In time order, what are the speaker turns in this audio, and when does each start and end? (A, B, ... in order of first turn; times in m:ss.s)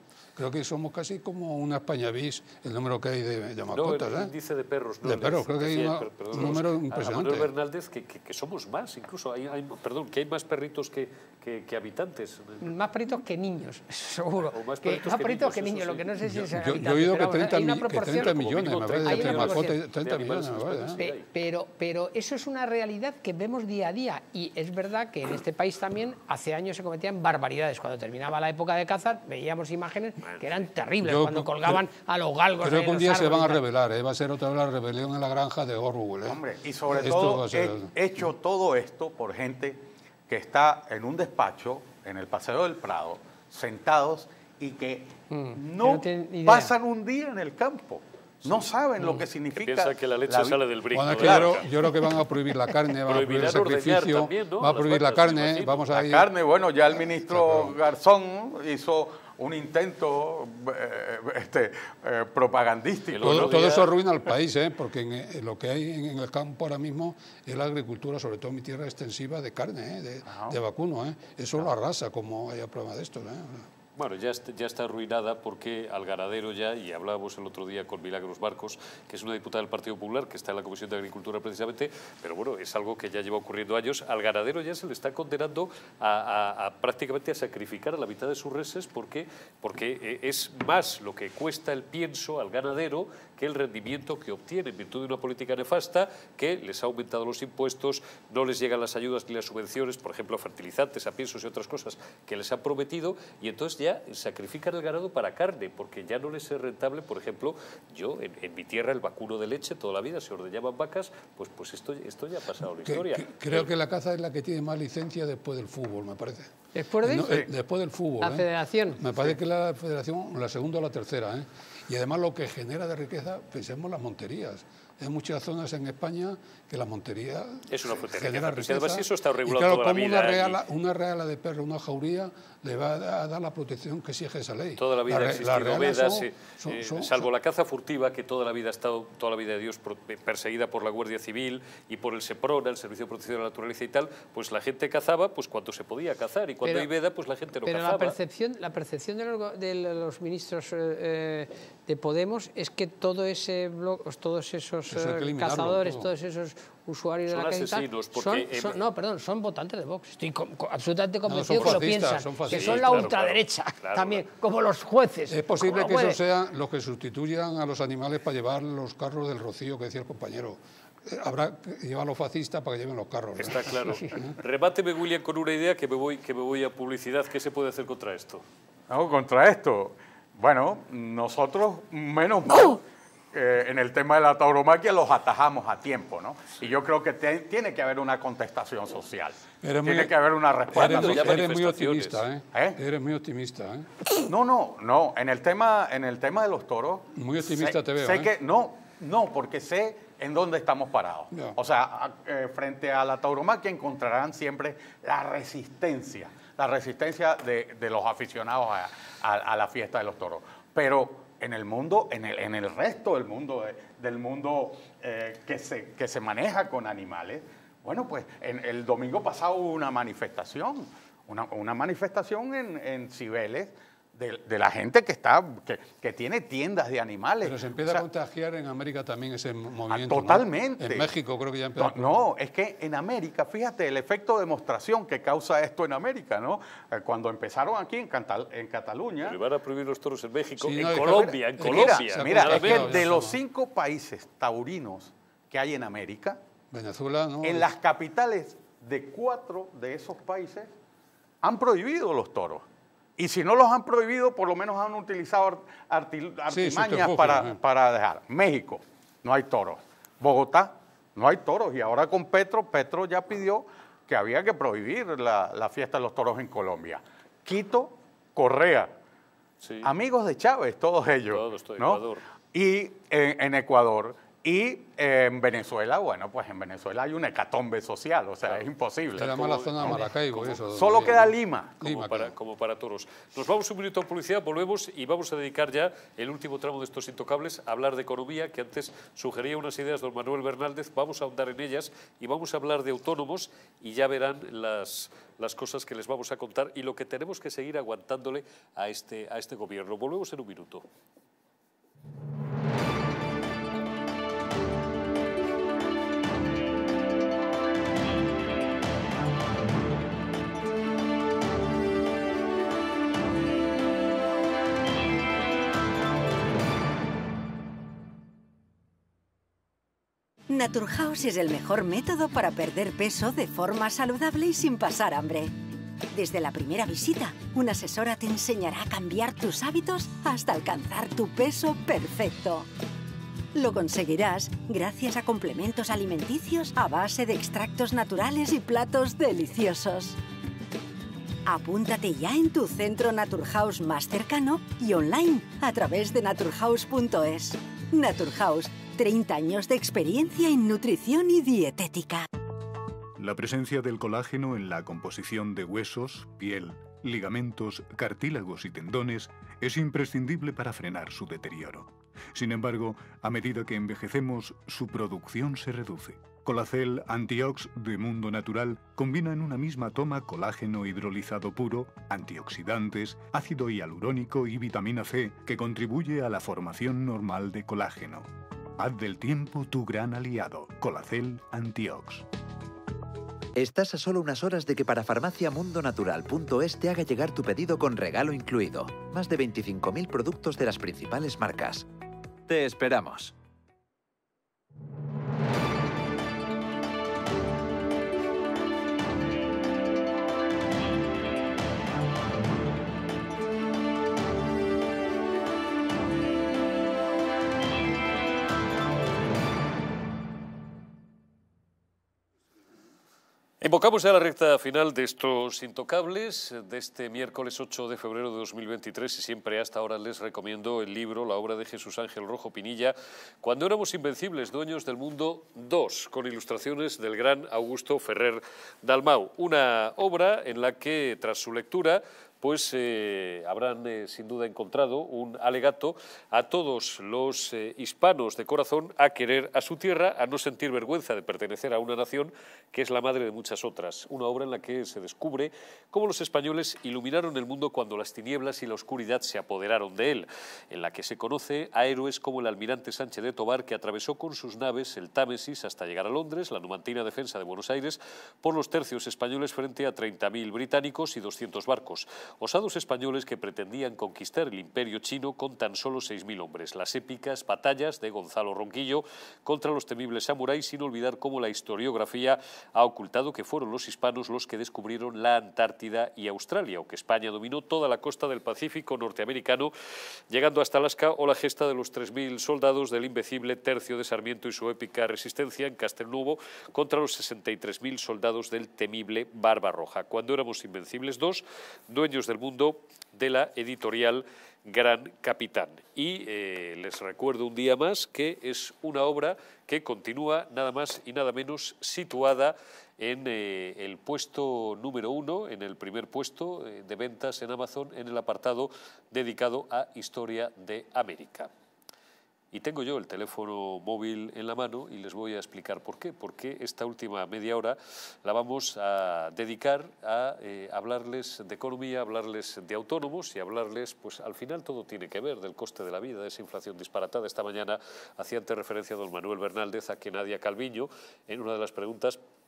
0:00.4-0:04.3 A
0:03.7-0:12.7 B
0:05.0-0:07.5 A
0:12.6-0:19.7 C
0:14.5-0:16.1 B
0:16.2-0:21.0 A
0:18.1-0:21.2 B
0:21.0-0:33.6 C
0:30.2-0:30.7 B
0:31.0-0:31.8 A
0:32.6-0:37.9 A
0:36.2-0:51.7 D
0:45.3-0:46.7 C
0:49.6-0:51.7 B
0:50.9-0:56.3 A
0:53.1-0:55.9 B
0:55.9-1:03.7 D
0:57.3-0:57.8 A
1:03.1-1:03.9 B
1:03.2-1:13.7 A
1:10.3-1:10.6 D
1:14.0-1:53.7 B
1:52.8-1:56.5 A
1:56.7-1:57.3 C
1:57.0-2:17.3 A
1:57.2-1:57.5 D
1:58.2-1:59.0 C
2:07.7-2:10.6 B
2:14.8-2:28.2 B
2:27.7-2:46.2 C
2:34.9-2:36.1 A
2:37.3-2:38.8 B
2:41.3-2:43.1 A
2:42.5-2:44.2 B
2:45.3-2:54.3 A
2:53.4-2:58.4 B
2:58.9-3:02.8 D
3:03.3-3:11.4 D
3:09.6-3:10.2 A
3:10.7-3:13.9 A
3:10.7-3:12.2 B
3:12.5-3:12.8 D
3:14.2-3:48.0 D
3:17.2-3:18.3 A
3:21.3-3:21.6 A
3:47.4-3:52.3 A
3:49.9-3:51.1 D
3:51.8-3:59.4 D
3:59.2-4:03.1 B
4:00.6-4:03.4 A
4:00.8-4:06.4 D
4:06.7-4:07.7 A
4:07.4-4:10.7 D
4:11.4-4:12.6 D
4:13.2-4:28.9 D
4:16.5-4:17.6 A
4:29.6-4:29.9 B
4:29.8-4:40.1 D
4:31.3-4:32.2 B
4:39.2-4:42.3 A
4:39.2-4:41.2 B
4:40.6-4:41.8 D
4:41.8-5:00.8 B
5:20.5-5:25.5 E
5:26.1-5:32.7 E
5:33.5-5:40.2 E
5:41.5-5:52.3 E
5:53.2-6:22.3 F
6:23.6-6:31.9 G
6:32.5-6:33.3 G
6:53.6-7:59.7 B
8:00.3-8:31.5 B
8:32.5-8:52.2 B